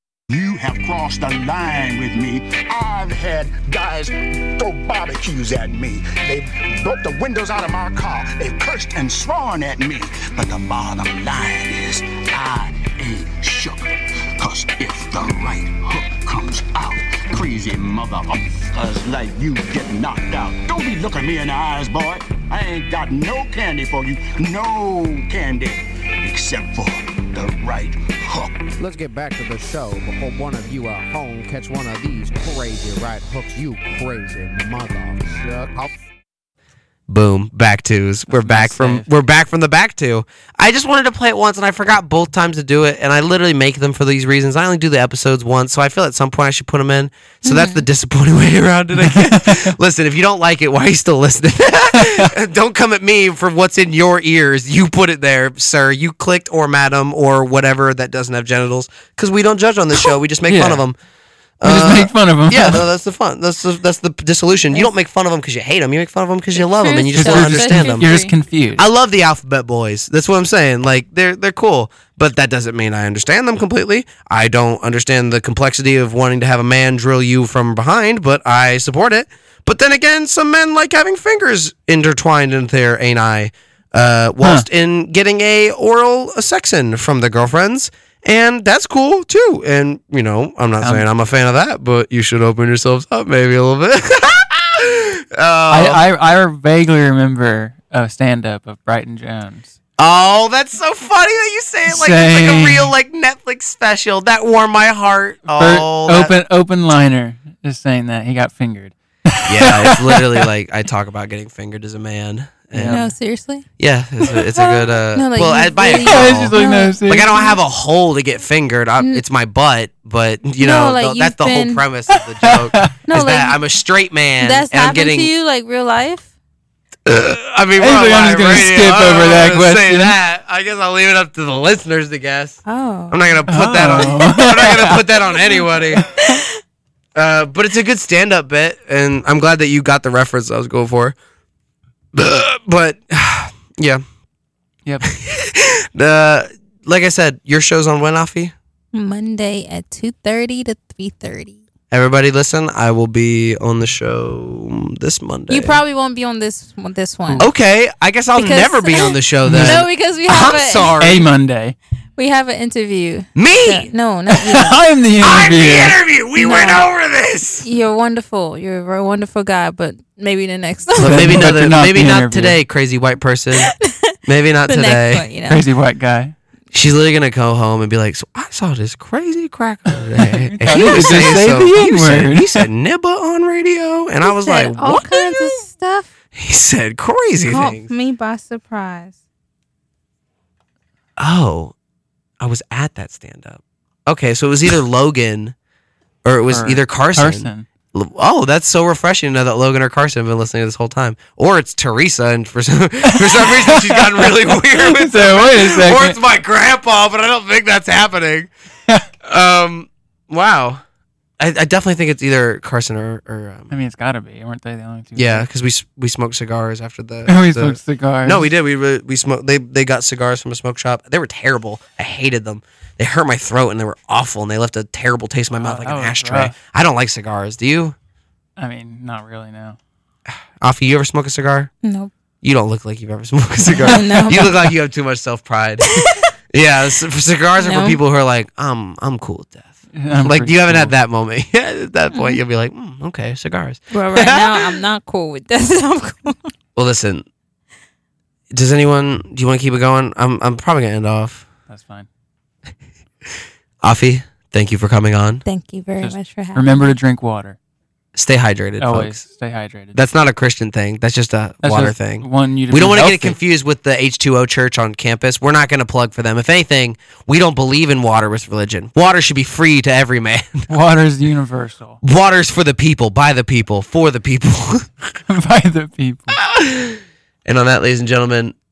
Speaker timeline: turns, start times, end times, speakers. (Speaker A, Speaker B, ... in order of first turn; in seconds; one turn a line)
Speaker A: 0.3-28.7
Speaker B: 28.8-35.9
Speaker C: 37.1-61.0
Speaker D: 38.3-39.1
Speaker E: 47.4-47.8
Speaker D: 48.9-49.7
Speaker D: 51.9-52.3
Speaker D: 60.5-60.8
Speaker C: 61.6-68.1
Speaker D: 61.6-62.9
Speaker E: 66.5-68.3
Speaker D: 67.1-68.8
Speaker C: 68.8-96.0
Speaker D: 84.4-84.7
Speaker D: 90.8-91.1
Speaker D: 95.7-99.7
Speaker C: 100.0-106.3
Speaker D: 101.9-102.9
Speaker D: 105.5-110.5
Speaker C: 109.5-113.1
Speaker D: 112.7-113.1
Speaker E: 112.8-113.7
Speaker C: 113.8-125.3
Speaker E: 114.3-117.0
Speaker D: 115.9-117.5
Speaker E: 120.6-121.8
Speaker D: 122.1-123.0
Speaker E: 123.1-123.6
Speaker E: 124.4-126.3
Speaker C: 127.0-136.0
Speaker D: 127.8-130.2
Speaker E: 132.7-133.4
Speaker D: 133.5-135.3
Speaker C: 137.2-141.1
Speaker C: 142.1-144.0
Speaker C: 145.1-148.5
Speaker E: 148.9-151.6
Speaker C: 151.9-155.8
Speaker E: 155.5-157.5
Speaker C: 157.4-161.2
Speaker E: 158.3-160.9
Speaker D: 159.4-159.8
Speaker D: 161.0-161.8
Speaker E: 162.2-164.8
Speaker C: 163.3-163.9
Speaker D: 164.3-166.0
Speaker C: 165.2-167.6
Speaker E: 166.4-166.8
Speaker E: 167.6-171.5
Speaker D: 171.0-172.6
Speaker C: 171.0-173.7
Speaker E: 173.8-174.1
Speaker C: 174.2-175.2
Speaker E: 174.7-175.6
Speaker D: 175.5-176.3
Speaker C: 176.7-185.5
Speaker D: 179.9-182.7
Speaker E: 184.2-186.1
Speaker C: 186.3-187.9
Speaker E: 187.4-189.1
Speaker C: 191.2-191.7
Speaker C: 192.4-195.5
Speaker C: 196.2-208.5
Speaker D: 196.5-197.7
Speaker D: 203.0-206.2
Speaker C: 209.2-210.8
Speaker C: 211.4-213.7
Speaker D: 213.7-215.5
Speaker C: 215.1-227.9
Speaker D: 217.2-218.5
Speaker D: 225.5-226.6
Speaker D: 228.6-229.8
Speaker C: 230.3-231.7
Speaker E: 231.8-232.1
Speaker C: 232.4-236.0
Speaker E: 233.8-234.7
Speaker E: 235.9-236.3
Speaker C: 236.5-244.8
Speaker E: 237.6-238.0
Speaker D: 239.9-240.9
Speaker E: 242.1-242.4
Speaker E: 243.9-246.5
Speaker C: 246.8-247.2
Speaker C: 248.5-251.4
Speaker D: 251.7-252.1
Speaker C: 253.8-255.4
Speaker E: 255.4-256.9
Speaker D: 256.0-257.6
Speaker C: 258.1-259.2
Speaker D: 258.8-260.0
Speaker C: 259.9-270.7
Speaker D: 261.6-263.4
Speaker D: 270.7-272.0
Speaker C: 272.0-274.9
Speaker D: 275.3-276.4
Speaker C: 276.4-278.5